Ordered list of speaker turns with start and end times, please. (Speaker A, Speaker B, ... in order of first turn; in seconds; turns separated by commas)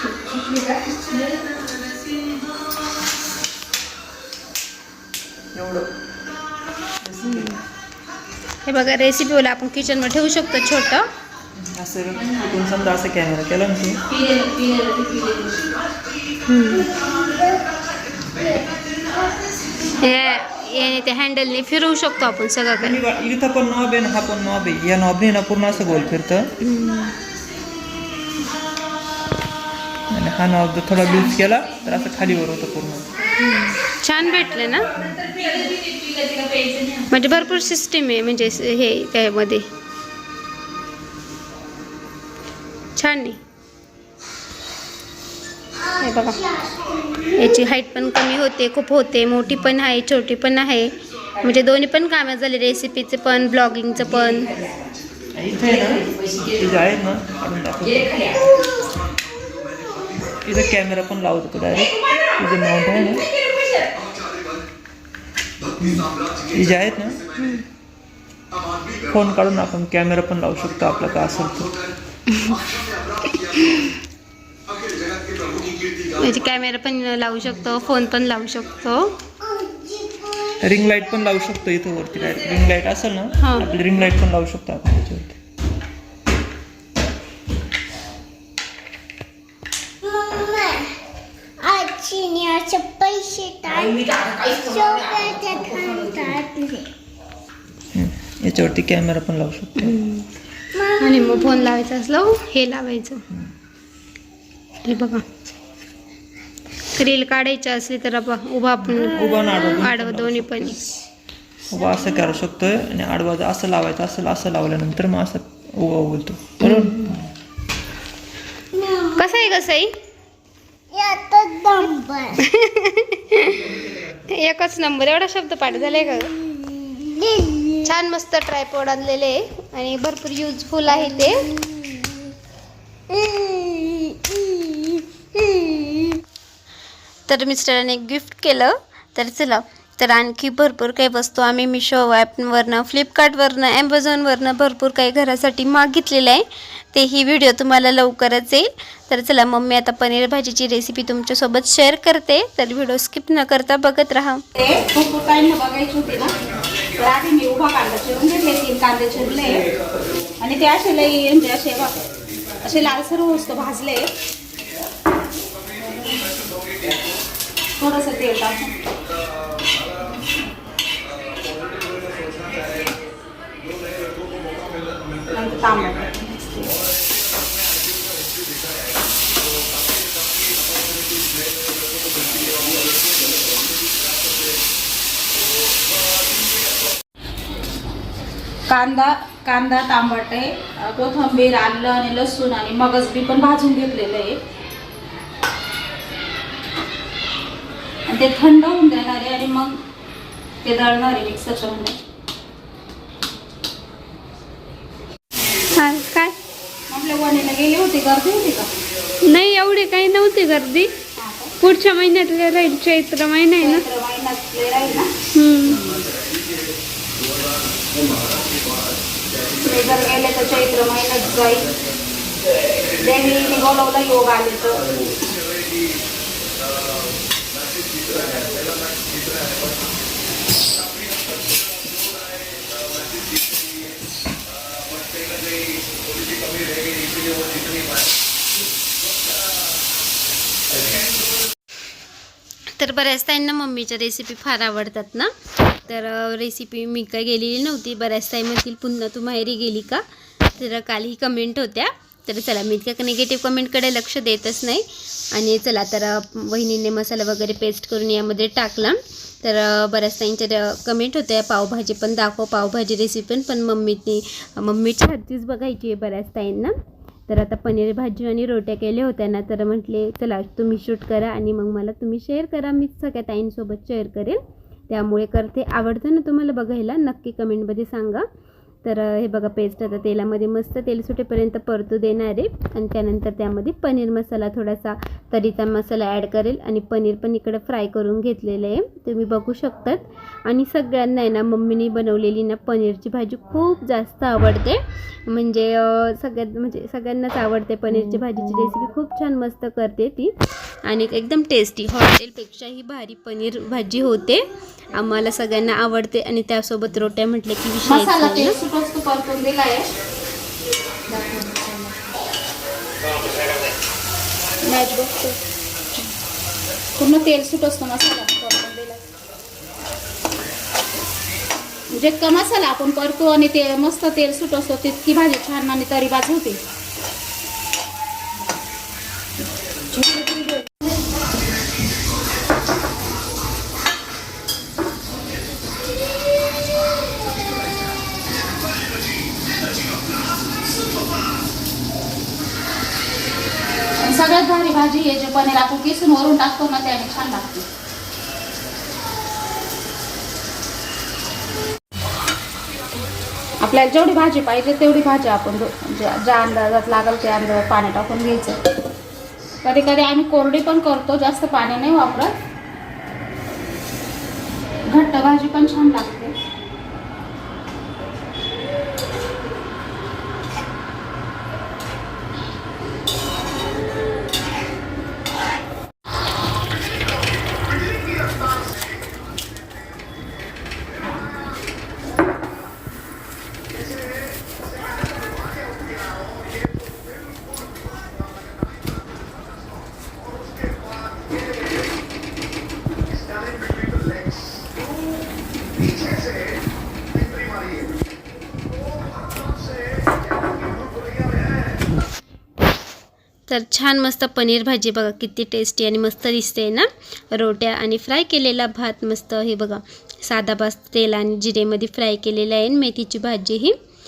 Speaker A: 0.1-1.5, Speaker B: 5.5-5.9, Speaker B: 7.0-7.6, Speaker C: 7.2-7.6, Speaker C: 8.7-11.1, Speaker B: 11.8-14.0, Speaker A: 14.1-15.7, Speaker C: 16.5-16.9, Speaker C: 20.0-23.0, Speaker B: 22.8-26.5, Speaker C: 26.6-27.1, Speaker B: 30.1-33.1, Speaker A: 33.3-33.7, Speaker C: 33.9-34.9, Speaker A: 34.9-37.4, Speaker C: 37.1-39.7, Speaker C: 43.0-43.4, Speaker C: 46.0-46.6, Speaker D: 46.5-47.3, Speaker C: 47.3-54.6, Speaker B: 55.3-58.4, Speaker B: 60.4-63.3, Speaker B: 66.4-67.3, Speaker C: 67.4-67.6, Speaker B: 69.1-71.8, Speaker C: 72.3-72.7, Speaker C: 73.3-73.9, Speaker C: 76.2-79.2, Speaker D: 79.4-80.5, Speaker B: 80.6-85.4, Speaker C: 83.4-83.7, Speaker D: 90.0-90.9, Speaker D: 91.6-96.9, Speaker B: 98.0-100.0, Speaker C: 99.8-100.3, Speaker D: 100.8-101.5, Speaker C: 101.0-103.2, Speaker C: 104.8-105.2, Speaker C: 107.0-110.8, Speaker B: 108.9-110.9, Speaker B: 111.7-117.3, Speaker C: 119.0-119.9, Speaker D: 120.9-122.4, Speaker C: 122.4-126.4, Speaker D: 126.8-127.8, Speaker C: 127.8-131.5, Speaker D: 133.1-136.2, Speaker C: 137.3-154.4, Speaker A: 154.6-156.4, Speaker A: 156.9-159.7, Speaker A: 160.4-162.1, Speaker A: 162.6-164.1, Speaker A: 165.9-166.4, Speaker A: 167.8-168.8, Speaker A: 170.0-170.4, Speaker A: 175.3-176.9, Speaker A: 188.7-194.4, Speaker A: 198.1-199.8, Speaker A: 200.6-202.0, Speaker C: 205.7-206.4, Speaker A: 206.9-208.7, Speaker C: 209.2-210.9, Speaker A: 211.2-211.5, Speaker C: 211.6-213.8, Speaker A: 213.6-215.1, Speaker C: 215.3-216.1, Speaker A: 219.6-221.8, Speaker A: 222.8-224.9, Speaker C: 242.8-245.3, Speaker C: 245.9-250.0, Speaker C: 250.6-266.7, Speaker C: 267.3-278.2, Speaker C: 278.8-300.3, Speaker C: 300.9-304.4, Speaker C: 304.9-308.6, Speaker A: 307.9-309.9, Speaker A: 311.1-312.1, Speaker A: 314.6-315.4, Speaker A: 317.0-319.0, Speaker A: 321.9-326.6, Speaker A: 344.0-347.5, Speaker A: 353.6-358.6, Speaker A: 359.6-362.4, Speaker A: 364.9-366.4, Speaker C: 403.5-413.8